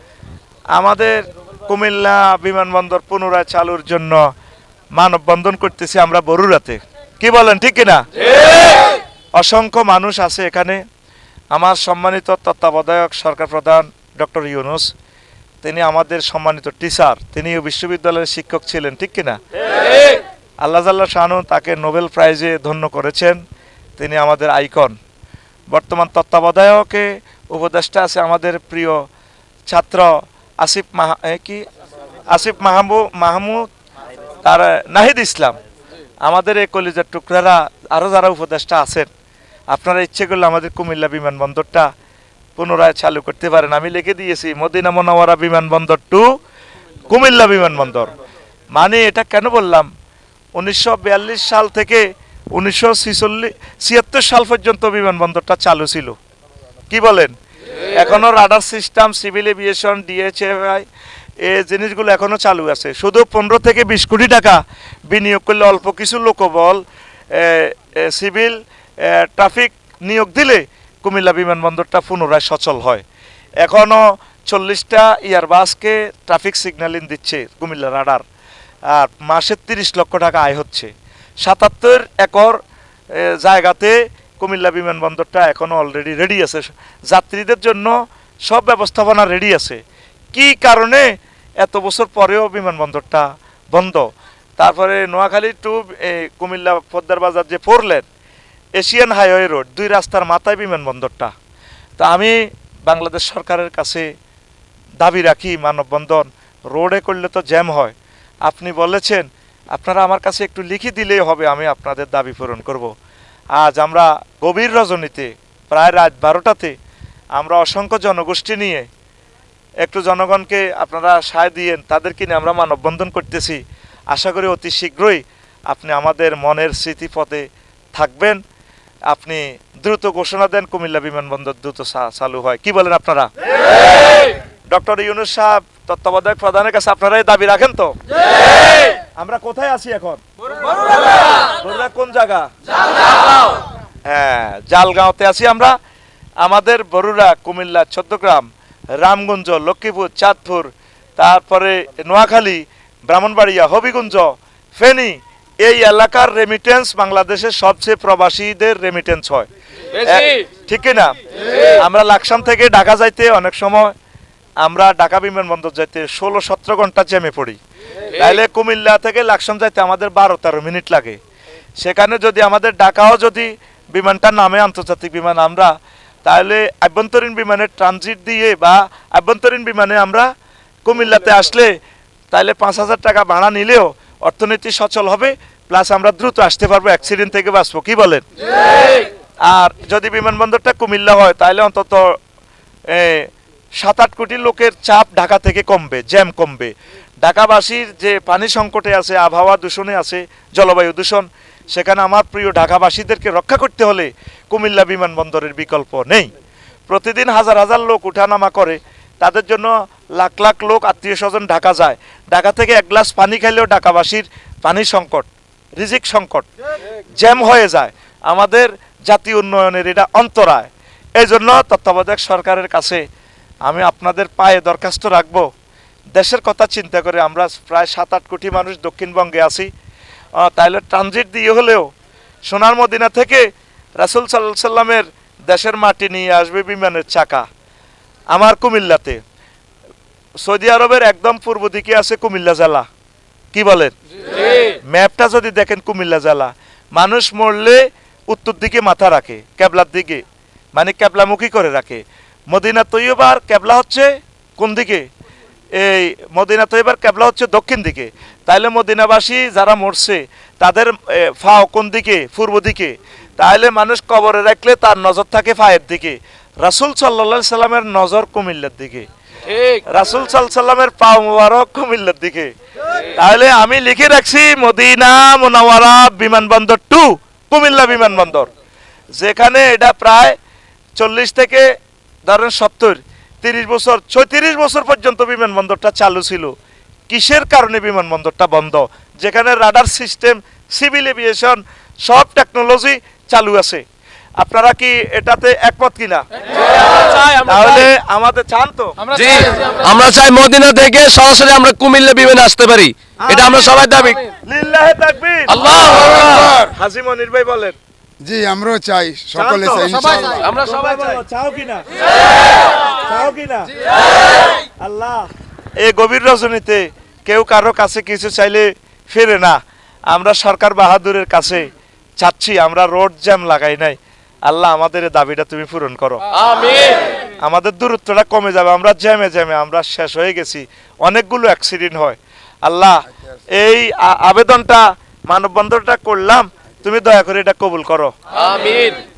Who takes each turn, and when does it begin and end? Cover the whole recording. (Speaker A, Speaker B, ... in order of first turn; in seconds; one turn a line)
Speaker A: 0.7-4.3
Speaker A: 4.9-8.0
Speaker A: 9.3-10.8
Speaker A: 11.5-14.9
Speaker A: 15.6-19.4
Speaker A: 20.6-23.4
Speaker A: 24.0-25.0
Speaker A: 25.7-29.0
Speaker A: 29.7-31.6
Speaker A: 32.3-33.6
Speaker A: 34.4-35.5
Speaker A: 36.2-39.1
Speaker A: 39.7-41.9
Speaker A: 42.5-46.3
Speaker A: 47.1-48.1
Speaker A: 48.7-49.9
Speaker A: 50.5-56.1
Speaker A: 56.9-60.9
Speaker A: 61.4-73.0
Speaker A: 73.6-78.2
Speaker A: 78.9-80.9
Speaker A: 81.4-82.6
Speaker A: 83.1-89.8
Speaker A: 90.3-98.0
Speaker A: 98.8-101.3
Speaker A: 102.0-104.1
Speaker A: 105.0-112.9
Speaker A: 113.5-116.7
Speaker A: 117.3-118.9
Speaker A: 119.8-123.6
Speaker A: 124.1-128.4
Speaker A: 129.1-133.3
Speaker A: 134.7-138.0
Speaker A: 139.2-140.2
Speaker A: 141.5-142.5
Speaker A: 144.1-145.8
Speaker A: 146.4-163.9
Speaker A: 164.6-167.6
Speaker A: 168.1-171.2
Speaker A: 171.8-175.7
Speaker A: 176.2-180.3
Speaker A: 180.8-181.8
Speaker A: 182.3-188.2
Speaker A: 189.4-192.2
Speaker A: 192.9-206.3
Speaker A: 206.9-216.5
Speaker A: 217.2-223.0
Speaker A: 223.6-225.5
Speaker A: 226.1-229.7
Speaker A: 230.4-231.9
Speaker A: 232.5-237.4
Speaker A: 238.3-239.2
Speaker A: 240.4-242.8
Speaker A: 243.5-243.9
Speaker A: 244.8-255.1
Speaker A: 255.7-269.1
Speaker B: 269.5-269.8
Speaker A: 269.9-272.5
Speaker A: 273.1-278.5
Speaker A: 279.1-280.4
Speaker A: 281.0-281.7
Speaker A: 282.2-286.5
Speaker A: 287.1-293.8
Speaker A: 294.4-296.2
Speaker B: 297.0-297.8
Speaker A: 297.3-299.2
Speaker B: 299.1-304.2
Speaker A: 303.2-303.6
Speaker A: 304.4-305.6
Speaker B: 305.5-306.5
Speaker A: 306.5-307.8
Speaker C: 308.2-310.5
Speaker A: 309.3-311.8
Speaker A: 313.0-313.8
Speaker A: 314.8-315.3
Speaker A: 315.8-326.4
Speaker B: 326.5-326.9
Speaker A: 327.4-338.1
Speaker B: 338.4-339.0